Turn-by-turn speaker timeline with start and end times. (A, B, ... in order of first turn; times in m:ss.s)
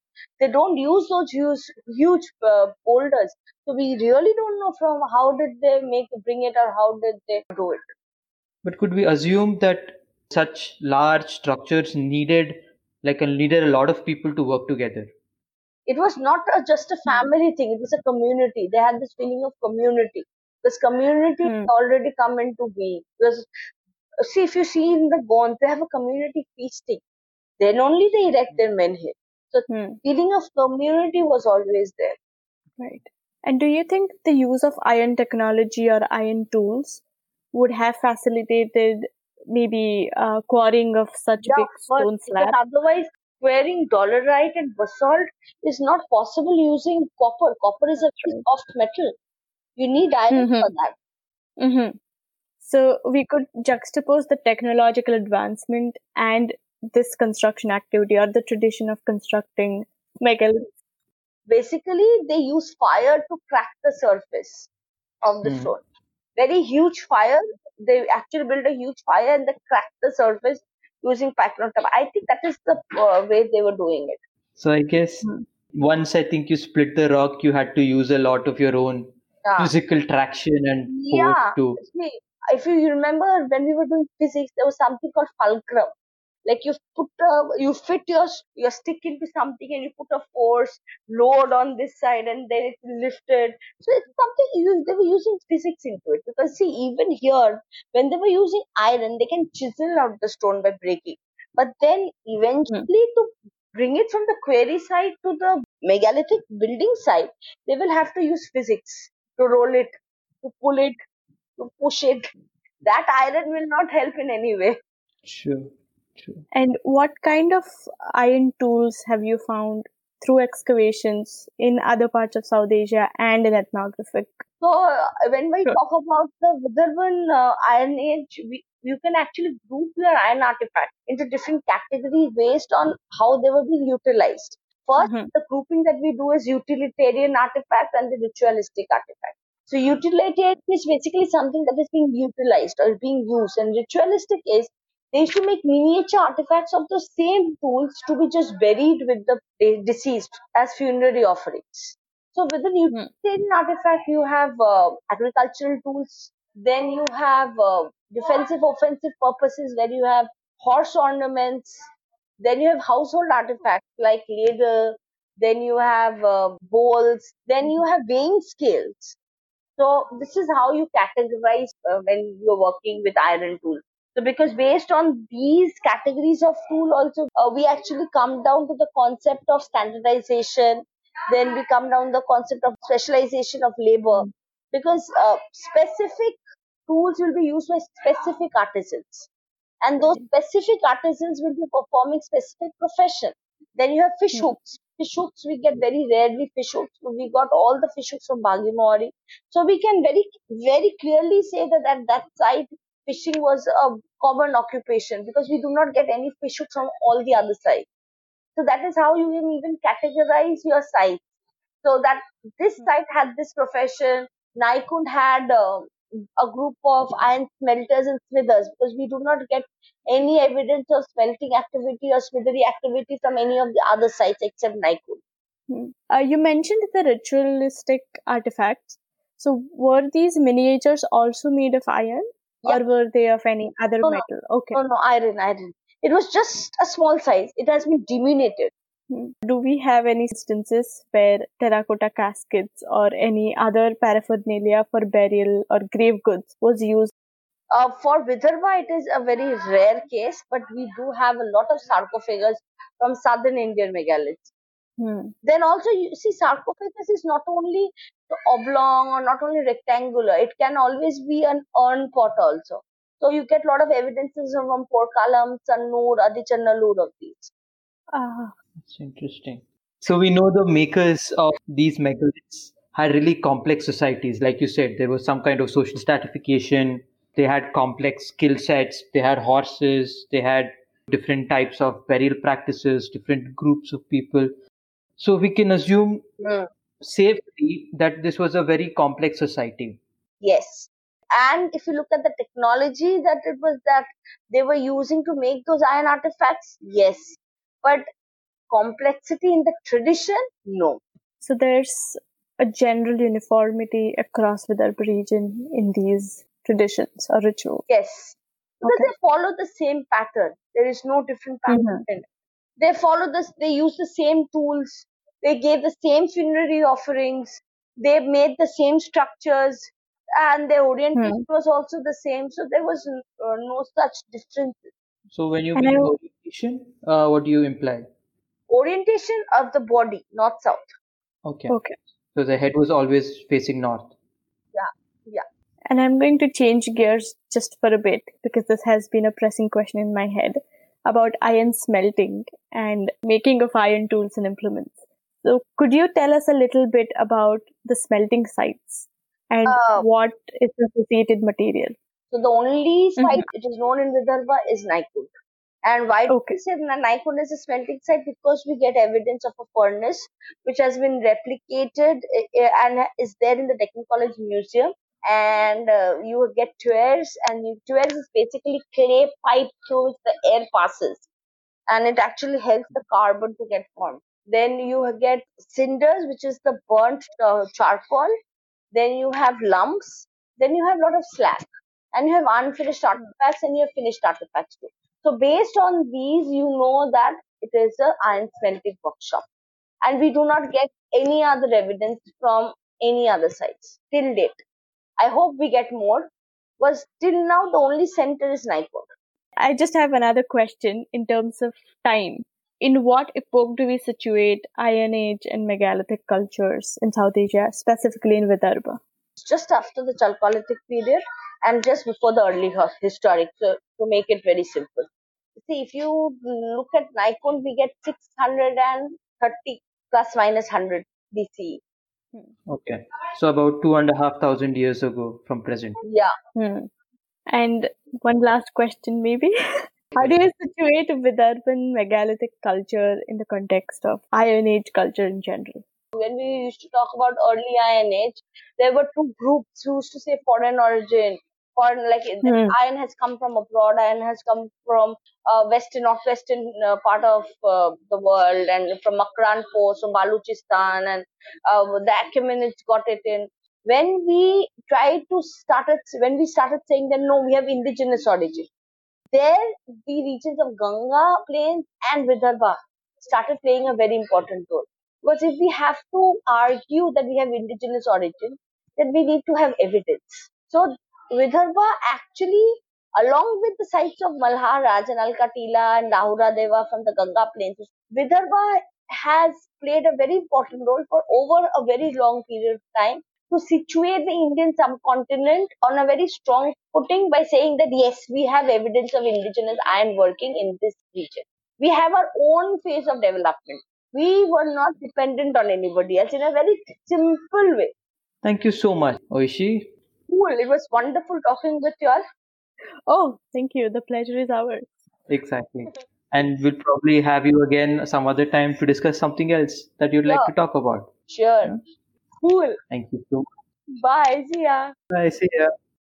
0:00.4-0:07.8 A
0:08.6-0:15.1 B
0:15.9-0:23.4 A
0:21.4-0:21.7 C
0:24.2-0:27.0 A
0:27.6-0:32.2 A
0:29.7-0:30.0 C
0:32.8-0:37.0 C
0:37.5-0:42.6 C
0:41.4-0:49.1 A
0:49.8-0:50.9 A
0:50.3-0:50.7 C
0:51.6-0:52.0 C
0:52.6-1:00.7 C
1:01.5-1:04.7 A
1:05.2-1:05.8 A
1:05.4-1:05.7 B
1:06.4-1:14.2 A
1:14.6-1:21.8 B
1:19.4-1:19.7 A
1:20.9-1:25.9 A
1:26.4-1:51.0 A
1:51.6-1:52.2 A
1:52.8-1:54.8 A
1:55.2-1:56.4 B
1:56.5-2:04.4 C
2:04.6-2:41.8 A
2:15.0-2:15.3 C
2:42.4-2:49.2 A
2:49.8-3:09.3 A
3:09.8-3:27.8 A
3:28.6-3:31.2 A
3:31.8-3:45.2 A
3:45.7-3:54.8 C
3:54.0-3:58.7 A
3:59.1-4:07.1 C
4:07.7-4:14.5 A
4:15.0-4:15.3 C
4:15.4-4:27.5 A
4:28.1-4:28.5 C
4:28.8-4:44.5 B
4:45.2-4:46.2 B
4:46.4-4:46.7 A
4:47.0-4:50.0 B
4:50.4-4:58.0 A
4:58.7-5:01.0 A
5:01.4-5:07.8 C
5:07.9-5:12.2 A
5:08.8-5:09.1 C
5:11.7-5:12.0 C
5:12.8-5:24.9 A
5:21.1-5:21.4 C
5:25.3-5:28.1 B
5:25.8-5:26.1 C
5:28.7-5:30.9 A
5:31.4-5:31.8 B
5:31.7-5:31.9 C
5:32.3-5:34.1 B
5:34.7-5:35.4 A
5:35.9-5:51.9 C
5:49.6-5:50.0 A
5:52.3-5:55.3 A
5:53.2-5:53.4 C
5:55.8-6:11.2 A
5:56.3-5:56.6 C
6:11.9-6:18.3 A
6:18.9-6:29.4 A
6:30.0-6:34.6 A
6:35.2-6:36.3 A
6:36.8-6:39.1 A
6:39.6-6:49.0 C
6:49.4-6:55.1 A
6:55.6-7:01.8 A
7:02.7-7:06.0 B
7:06.0-7:06.3 A
7:06.5-7:06.9 C
7:07.5-7:09.5 C
7:10.1-7:15.8 C
7:16.1-7:38.7 A
7:22.4-7:22.7 C
7:39.3-8:17.9 A
8:18.4-8:19.9 B
8:20.3-8:22.2 A
8:23.1-8:24.8 C
8:25.3-8:31.1 B
8:30.2-8:30.5 A
8:31.3-8:31.7 A
8:32.4-8:32.8 A
8:32.9-8:33.5 B
8:34.0-8:34.9 A
8:35.1-8:35.7 B